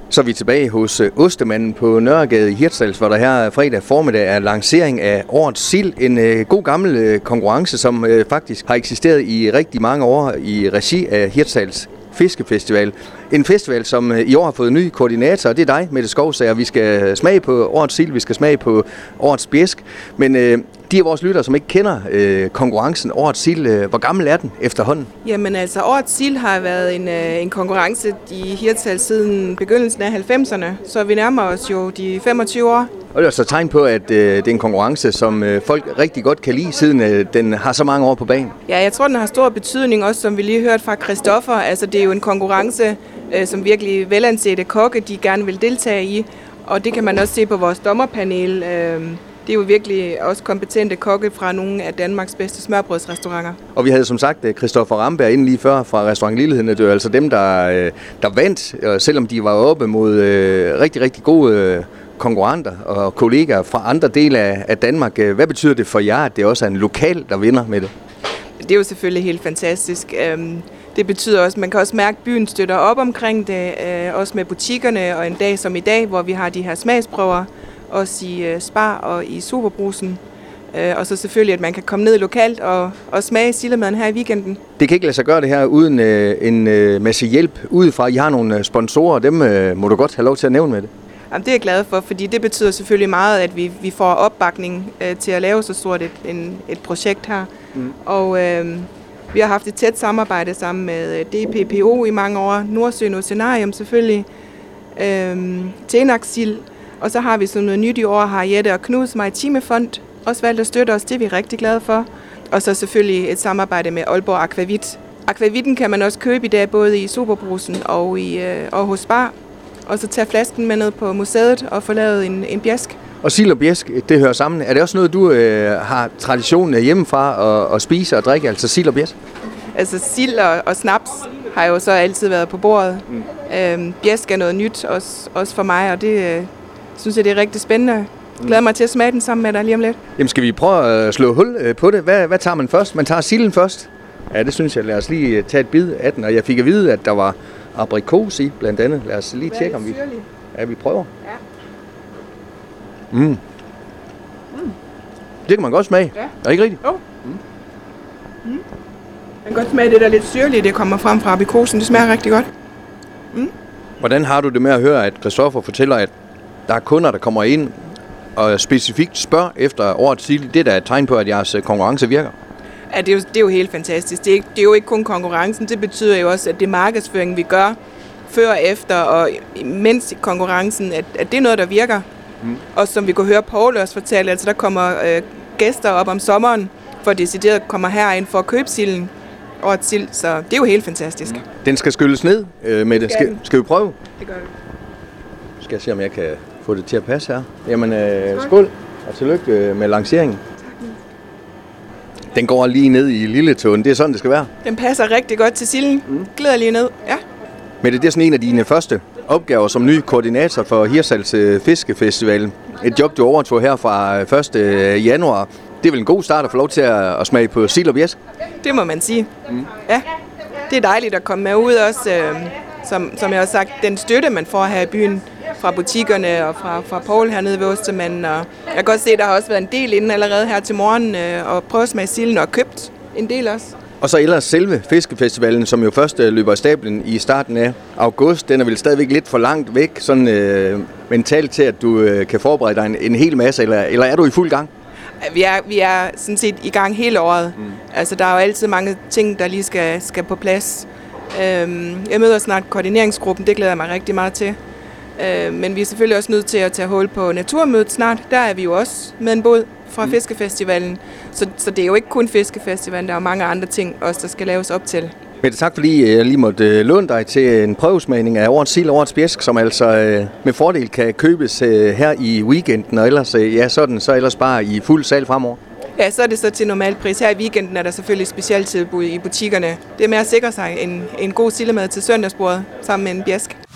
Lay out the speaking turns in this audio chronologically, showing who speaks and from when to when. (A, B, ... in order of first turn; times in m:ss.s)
0:00.1-0:25.1 A
0:25.2-0:32.9 B
0:33.1-0:38.5 A
0:38.7-0:53.6 B
0:53.8-1:07.9 A
1:08.6-1:20.2 B
1:20.7-1:24.6 B
1:24.8-1:30.9 A
1:31.3-1:37.5 B
1:38.0-1:44.3 B
1:45.0-1:59.3 B
1:59.9-2:03.0 B
2:03.2-2:09.1 A
2:09.7-2:20.0 B
2:20.2-2:30.0 A
2:29.5-2:30.2 B
2:30.5-2:31.1 A
2:33.1-2:33.4 A
2:35.5-2:36.8 A
2:39.4-2:42.5 B
2:44.0-2:46.1 A
2:46.7-2:47.7 A
2:48.4-2:52.3 A
2:52.9-2:57.8 B
2:58.3-3:02.1 B
3:02.7-3:11.4 B
3:11.6-3:14.0 A
3:13.1-3:13.4 B
3:14.2-3:14.5 B
3:15.6-3:20.4 A
3:20.6-3:21.0 B
3:22.3-3:24.5 A
3:24.6-3:27.2 B
3:27.8-3:38.2 A
3:38.6-3:40.1 B
3:40.7-3:53.8 B
3:54.0-4:04.7 A
4:05.2-4:14.6 B
4:15.2-4:25.1 B
4:25.4-4:35.6 A
4:36.0-4:43.6 B